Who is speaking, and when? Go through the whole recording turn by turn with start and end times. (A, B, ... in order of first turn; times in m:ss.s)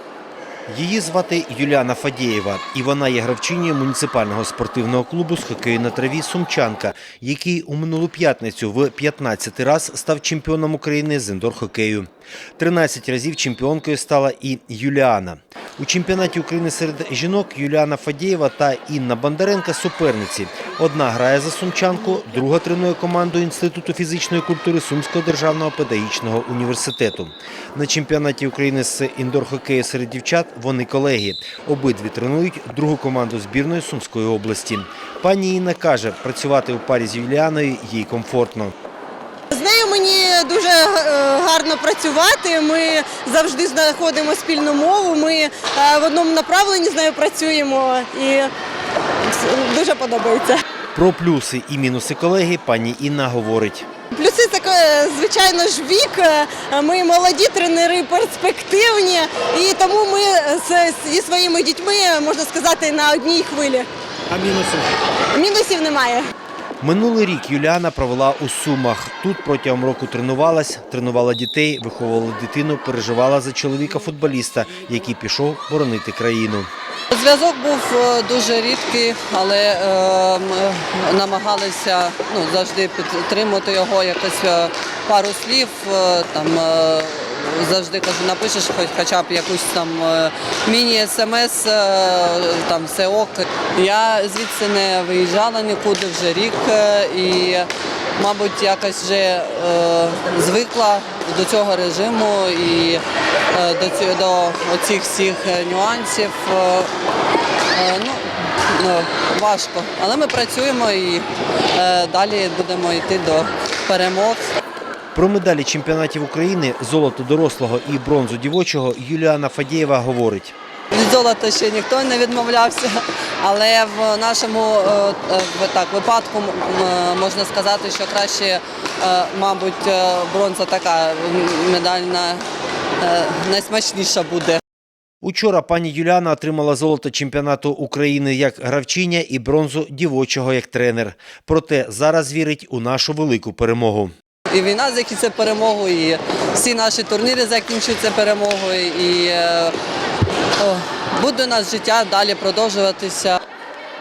0:00.7-0:38.7 A
0:39.5-0:48.5 B
0:49.3-0:50.6 B
0:50.9-0:53.9 A
0:54.1-1:03.9 B
1:05.3-1:06.3 B
1:06.8-1:16.7 A
1:17.1-1:46.9 C
1:47.7-1:54.5 C
1:55.1-2:00.5 A
2:00.9-2:12.4 C
2:13.0-2:14.6 C
2:15.2-2:24.1 A
2:24.5-2:29.7 C
2:30.6-2:33.4 C